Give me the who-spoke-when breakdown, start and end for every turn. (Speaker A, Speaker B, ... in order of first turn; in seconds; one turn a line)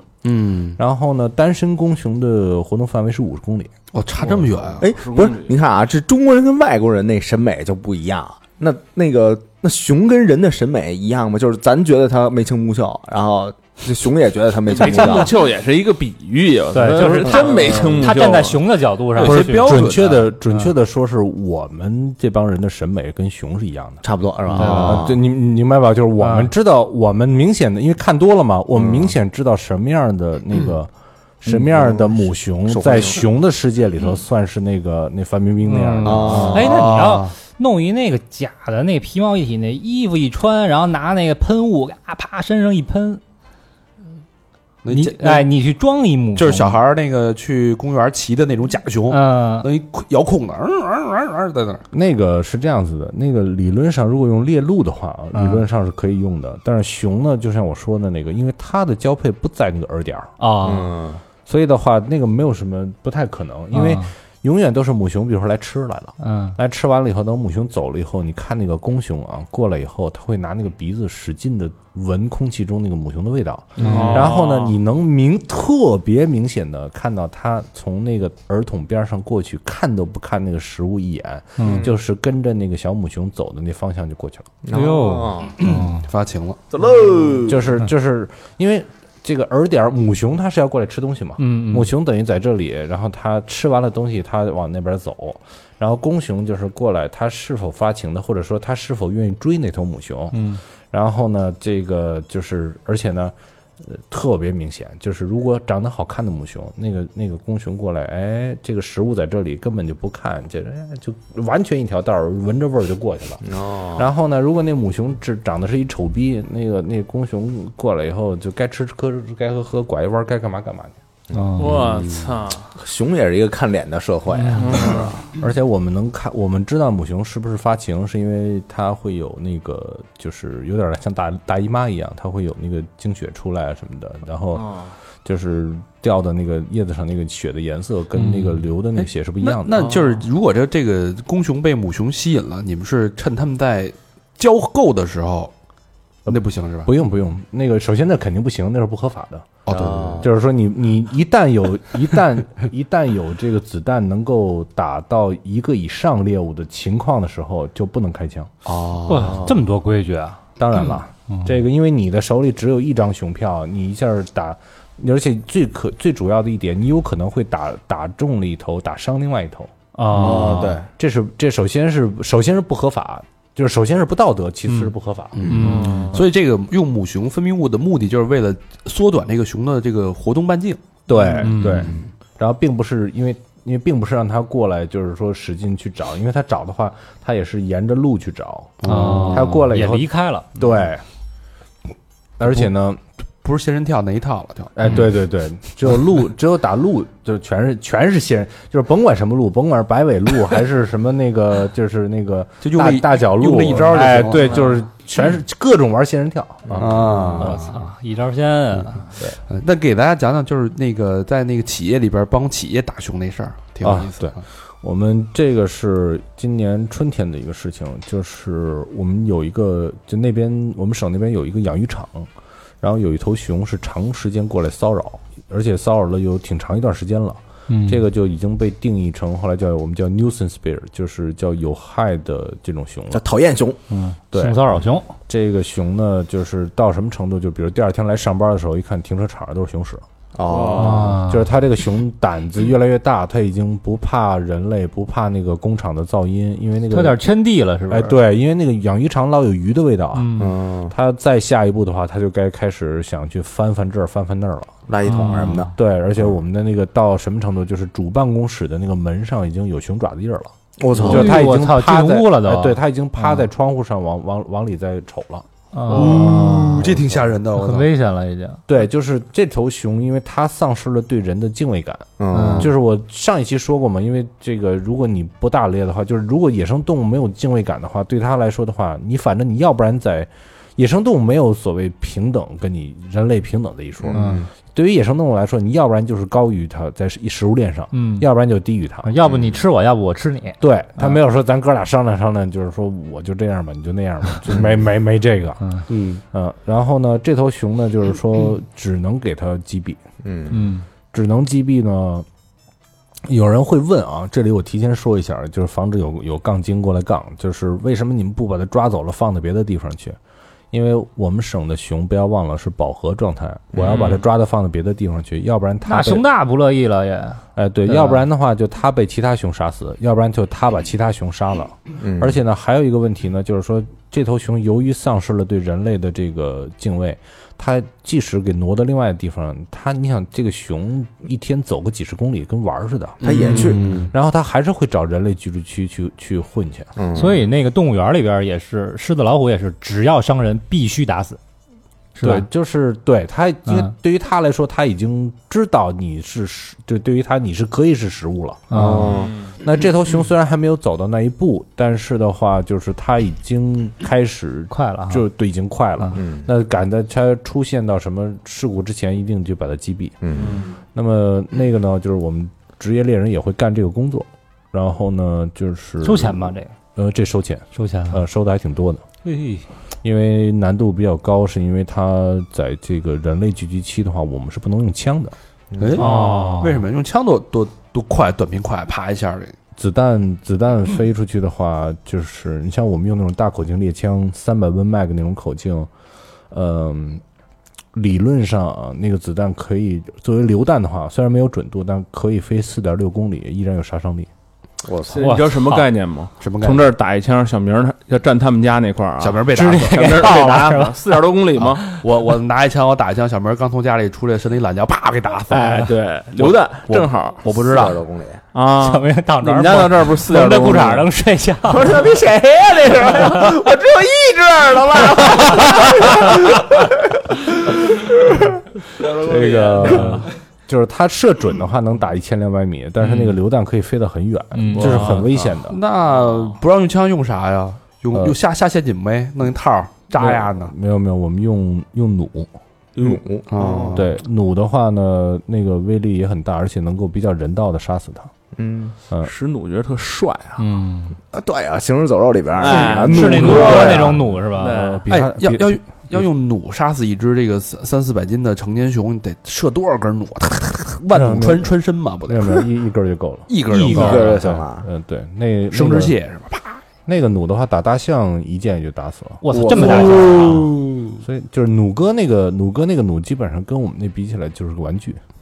Speaker A: 0.2-0.8
Speaker B: 0.8-3.7
Speaker A: 3.9-4.9
Speaker C: 4.7-5.5
Speaker D: 4.8-15.4
Speaker C: 14.7-18.6
Speaker E: 16.7-19.8
Speaker D: 17.2-17.8
Speaker A: 19.1-20.3
Speaker B: 19.2-30.9
Speaker D: 24.0-25.2
Speaker A: 24.5-24.9
Speaker E: 24.6-25.1
Speaker E: 26.2-26.5
Speaker D: 28.8-29.1
Speaker B: 31.4-36.7
Speaker D: 31.5-33.2
Speaker E: 35.6-43.2
Speaker D: 36.0-36.8
Speaker A: 36.1-37.3
Speaker A: 44.8-45.5
Speaker E: 44.9-46.8
Speaker A: 46.4-51.8
Speaker E: 49.1-49.7
Speaker B: 51.9-60.3
Speaker E: 55.3-55.6
Speaker E: 60.4-60.9
Speaker D: 60.6-61.2
Speaker B: 61.5-84.5
Speaker E: 63.7-64.1
Speaker E: 66.2-66.6
Speaker E: 73.8-74.3
Speaker C: 73.8-74.7
Speaker E: 81.6-81.8
Speaker D: 84.6-85.6
Speaker E: 84.7-86.1
Speaker A: 85.6-86.6
Speaker D: 86.7-87.8
Speaker B: 87.4-100.4
Speaker E: 91.4-91.9
Speaker E: 100.3-100.6
Speaker B: 100.9-121.0
Speaker D: 113.4-114.0
Speaker E: 121.3-121.8
Speaker C: 121.5-122.7
Speaker D: 122.8-125.2
Speaker E: 124.3-124.8
Speaker C: 124.5-125.1
Speaker B: 125.4-134.7
Speaker C: 134.6-134.9
Speaker B: 135.2-139.8
Speaker E: 138.2-138.6
Speaker A: 138.9-145.5
Speaker C: 139.7-140.1
Speaker B: 146.2-149.6
Speaker A: 146.3-146.9
Speaker A: 149.7-150.3
Speaker D: 149.7-150.3
Speaker B: 150.2-158.5
Speaker D: 158.7-159.6
Speaker A: 159.0-159.2
Speaker E: 159.1-160.4
Speaker B: 160.6-175.6
Speaker E: 169.9-170.8
Speaker D: 170.1-170.9
Speaker A: 170.2-170.7
Speaker E: 174.7-174.9
Speaker A: 175.3-180.8
Speaker E: 175.5-176.1
Speaker C: 175.6-176.2
Speaker B: 181.1-191.0
Speaker E: 181.2-182.0
Speaker A: 181.4-182.0
Speaker A: 188.8-189.6
Speaker E: 188.8-190.5
Speaker B: 192.4-193.0
Speaker A: 193.4-194.9
Speaker B: 194.8-207.6
Speaker A: 202.6-204.6
Speaker A: 206.8-207.8
Speaker E: 207.1-209.1
Speaker A: 209.5-214.4
Speaker B: 213.8-222.3
Speaker B: 222.8-233.2
Speaker E: 227.7-228.0
Speaker D: 233.1-233.8
Speaker E: 233.9-235.1
Speaker B: 234.3-240.0
Speaker D: 240.3-241.2
Speaker C: 240.4-241.0
Speaker B: 240.7-247.2
Speaker E: 240.7-241.5
Speaker E: 246.9-248.1
Speaker B: 247.9-267.3
Speaker E: 250.1-250.5
Speaker D: 250.3-250.9
Speaker D: 254.9-255.7
Speaker E: 255.0-255.7
Speaker D: 260.8-261.4
Speaker E: 261.1-263.4
Speaker E: 265.7-266.9
Speaker A: 265.9-267.9
Speaker E: 267.6-268.6
Speaker B: 268.7-289.1
Speaker D: 272.2-272.7
Speaker E: 272.3-272.7
Speaker D: 284.0-284.5
Speaker E: 284.1-284.4
Speaker E: 287.9-288.3
Speaker E: 289.0-291.2
Speaker D: 289.2-289.6
Speaker B: 290.6-295.7
Speaker A: 295.9-296.2
Speaker B: 296.3-300.0
Speaker D: 300.2-300.6
Speaker E: 300.5-300.9
Speaker B: 301.1-302.2
Speaker B: 303.2-310.2
Speaker B: 310.7-316.2
Speaker D: 313.7-314.2
Speaker C: 313.8-314.2
Speaker E: 315.9-318.2
Speaker B: 317.6-336.9
Speaker D: 322.0-322.4
Speaker A: 333.2-334.1
Speaker D: 333.2-333.9
Speaker E: 333.4-334.1
Speaker D: 336.9-337.4
Speaker E: 337.1-341.4
Speaker E: 342.2-342.4
Speaker B: 342.2-360.2
Speaker E: 343.6-343.9
Speaker E: 348.7-349.1
Speaker D: 348.7-349.4
Speaker C: 349.1-349.6
Speaker E: 354.7-355.2
Speaker D: 356.1-356.5
Speaker D: 360.2-360.6
Speaker C: 360.4-360.7
Speaker B: 360.9-369.0
Speaker E: 366.0-366.7
Speaker E: 367.7-368.2
Speaker E: 369.2-369.6
Speaker B: 370.0-375.3
Speaker D: 375.7-376.0
Speaker A: 375.8-379.6
Speaker E: 375.9-376.8
Speaker C: 376.1-376.6
Speaker B: 379.8-385.9
Speaker B: 386.5-387.2
Speaker B: 387.9-394.3
Speaker D: 394.8-395.3
Speaker C: 395.1-402.0
Speaker E: 395.2-395.8
Speaker A: 396.4-396.9
Speaker A: 399.2-400.3
Speaker E: 399.5-402.0
Speaker A: 401.9-408.0
Speaker C: 405.5-407.4
Speaker D: 407.4-408.4
Speaker C: 408.5-411.1
Speaker E: 408.8-412.1
Speaker D: 411.7-418.5
Speaker C: 419.0-419.9
Speaker B: 419.0-425.8
Speaker E: 419.8-420.2
Speaker E: 424.5-425.2
Speaker C: 424.7-425.3
Speaker A: 424.8-430.7
Speaker C: 426.3-426.6
Speaker B: 430.1-432.5
Speaker D: 433.0-434.0
Speaker A: 433.5-434.1
Speaker B: 433.9-438.3
Speaker D: 438.5-438.9
Speaker C: 439.2-440.6
Speaker E: 440.6-441.2
Speaker D: 441.3-444.2
Speaker C: 442.5-445.0
Speaker E: 442.6-445.0
Speaker A: 443.3-443.8
Speaker B: 443.6-446.2
Speaker A: 445.1-452.7
Speaker B: 451.1-456.1
Speaker A: 453.5-454.5
Speaker D: 453.7-454.9
Speaker E: 453.9-454.2
Speaker A: 455.7-456.8
Speaker B: 457.1-460.2
Speaker E: 459.4-460.7
Speaker A: 459.5-461.2
Speaker D: 459.9-460.3
Speaker B: 461.2-465.2